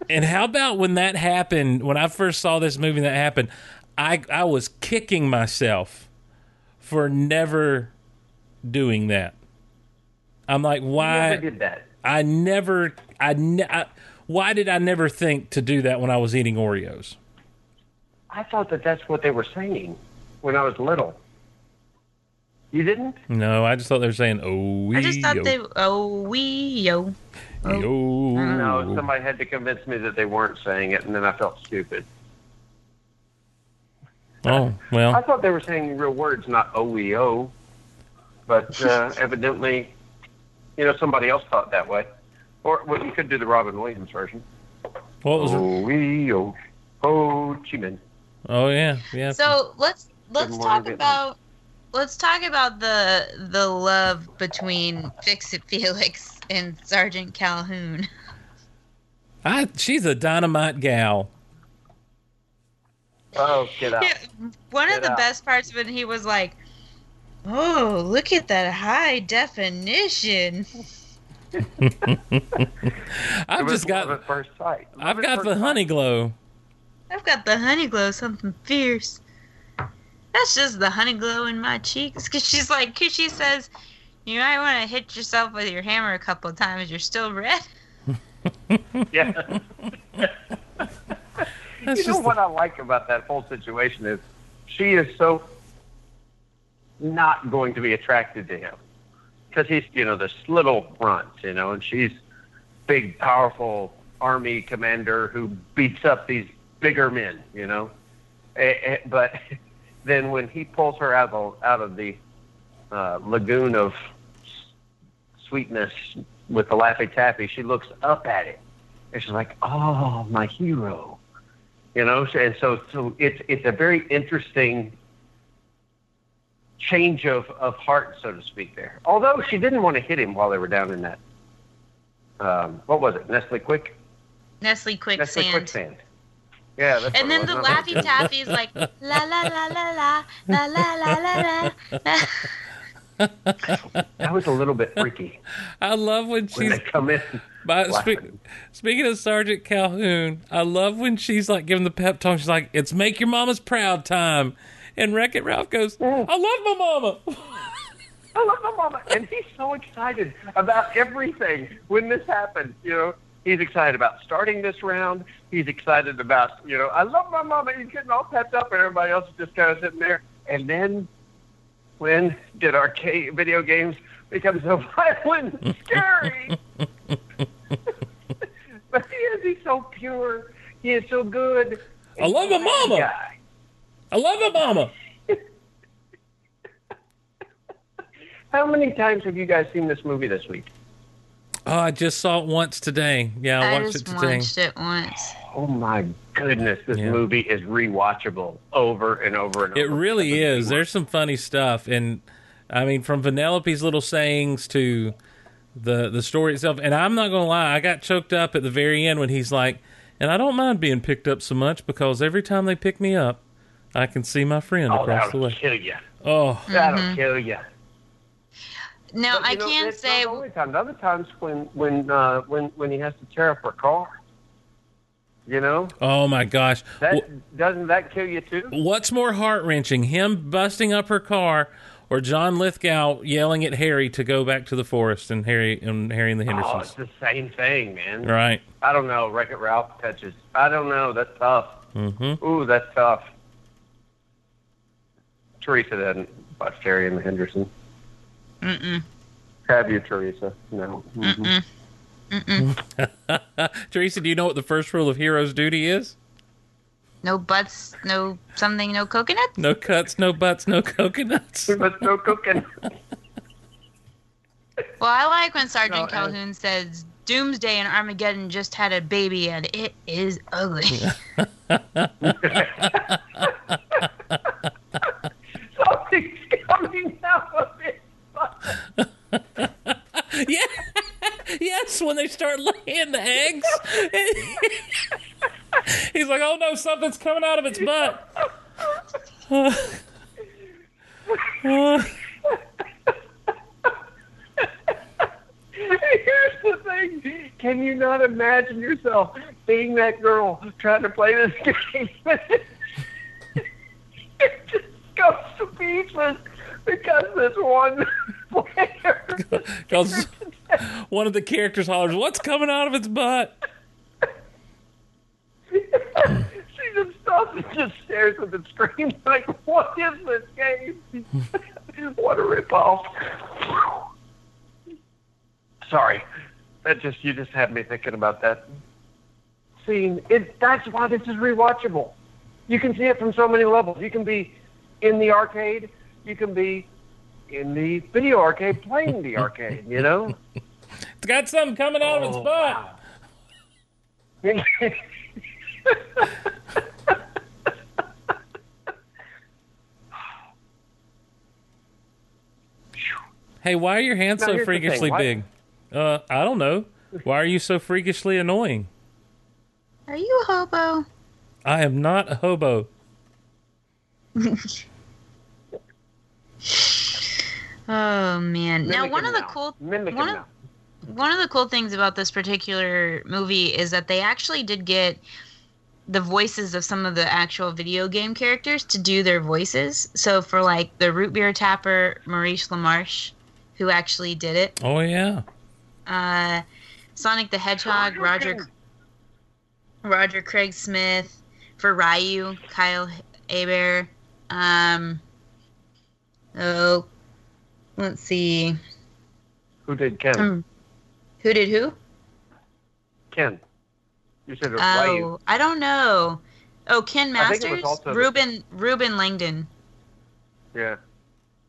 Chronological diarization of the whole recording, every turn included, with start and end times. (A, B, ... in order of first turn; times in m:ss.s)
0:00.1-0:06.1 A
0:06.8-0:07.9 A
0:08.6-0:09.4 A
0:10.5-0:11.4 A
0:11.0-0:11.9 B
0:12.0-0:17.2 A
0:18.3-0:21.2 B
0:22.7-0:23.2 B
0:23.3-0:25.5 A
0:24.9-0:28.9 C
0:27.6-0:29.0 A
0:28.4-0:32.0 B
0:34.4-0:35.2 A
0:35.1-0:37.5 B
0:38.5-0:39.9 B
0:40.8-0:42.1 B
0:42.6-0:44.4 B
0:45.2-0:45.7 A
0:45.4-0:48.0 B
0:48.5-0:49.5 A
0:49.3-0:51.4 C
0:50.4-0:51.2 B
0:51.9-0:58.1 C
0:59.4-1:01.3 A
1:03.4-1:04.1 B
1:04.7-1:06.6 C
1:04.9-1:05.2 B
1:07.4-1:10.7 C
1:11.8-1:14.2 A
1:13.5-1:15.8 B
1:15.0-1:16.3 A
1:17.1-1:19.2 C
1:20.3-1:23.7 C
1:24.2-1:27.7 C
1:29.1-1:29.6 B
1:31.8-1:32.4 A
1:31.8-1:35.5 B
1:37.0-1:38.8 B
1:39.5-1:42.2 B
1:42.9-1:47.9 B
1:48.6-1:49.4 B
1:50.0-1:52.2 B
1:52.9-1:54.0 B
1:55.4-1:58.6 B
1:59.1-2:01.2 B
2:01.9-2:04.9 B
2:06.8-2:11.2 B
2:12.4-2:14.0 B
2:14.6-2:15.8 C
2:15.2-2:16.0 B
2:16.8-2:18.3 B
2:17.1-2:22.5 C
2:17.6-2:18.5 A
2:21.0-2:21.7 A
2:23.2-2:23.8 A
2:24.2-2:25.4 B
2:25.8-2:26.9 A
2:26.5-2:28.3 B
2:27.6-2:37.7 A
2:36.0-2:36.3 B
2:38.3-2:51.1 B
2:52.0-2:56.6 B
2:58.9-3:03.3 B
3:02.2-3:03.1 A
3:04.1-3:04.9 A
3:08.5-3:10.7 B
3:11.6-3:14.5 A
3:13.6-3:15.3 C
3:15.4-3:20.8 B
3:16.9-3:17.2 A
3:19.7-3:25.2 A
3:25.7-3:33.4 A
3:33.9-3:35.6 A
3:34.9-3:36.0 B
3:36.2-3:36.7 A
3:36.7-3:37.6 B
3:36.7-3:37.2 C
3:39.1-3:40.4 C
3:39.3-3:44.1 B
3:45.4-3:45.9 B
3:46.0-3:47.2 A
3:47.0-3:48.7 B
3:48.7-3:56.9 A
3:56.5-3:58.3 B
3:58.2-3:58.6 A
3:58.8-4:01.8 B
4:01.9-4:02.4 A
4:02.4-4:03.3 B
4:05.6-4:07.7 B
4:08.6-4:09.0 C
4:09.7-4:11.5 B
4:11.2-4:11.6 C
4:12.3-4:12.7 C
4:12.6-4:16.1 A
4:17.2-4:19.5 C
4:19.6-4:21.8 A
4:21.7-4:22.6 B
4:25.0-4:31.1 C
4:25.8-4:26.3 B
4:30.9-4:32.9 A
4:32.2-4:33.5 B
4:35.8-4:38.6 B
4:39.0-4:45.0 A
4:45.9-4:48.2 A
4:49.5-4:50.0 A
4:51.6-4:52.1 A
4:55.7-5:02.6 B
5:04.4-5:10.2 B
5:09.5-5:13.6 A
5:15.7-5:21.2 B
5:21.9-5:24.0 B
5:25.8-5:26.2 B
5:26.8-5:28.6 B
5:29.8-5:32.1 B
5:32.7-5:36.9 B
5:37.5-5:40.4 B
5:41.2-5:42.9 A
5:42.0-5:42.8 B
5:44.4-5:45.0 B
5:45.9-5:46.2 B
5:53.6-5:58.9 A
5:54.4-5:55.3 B
6:00.1-6:01.0 C
6:01.6-6:02.9 A
6:07.9-6:10.4 C
6:08.8-6:10.5 B
6:11.0-6:15.2 C
6:16.1-6:24.7 C
6:24.8-6:25.4 A
6:26.1-6:26.6 C
6:27.2-6:28.6 C
6:27.9-6:28.6 B
6:30.0-6:35.2 C
6:36.5-6:37.0 C
6:38.0-6:38.8 C
6:39.8-6:40.5 B
6:40.4-6:40.6 C
6:41.4-6:42.0 C
6:43.3-6:43.6 B
6:44.5-6:45.3 B
6:44.8-6:49.7 C
6:47.4-6:48.4 B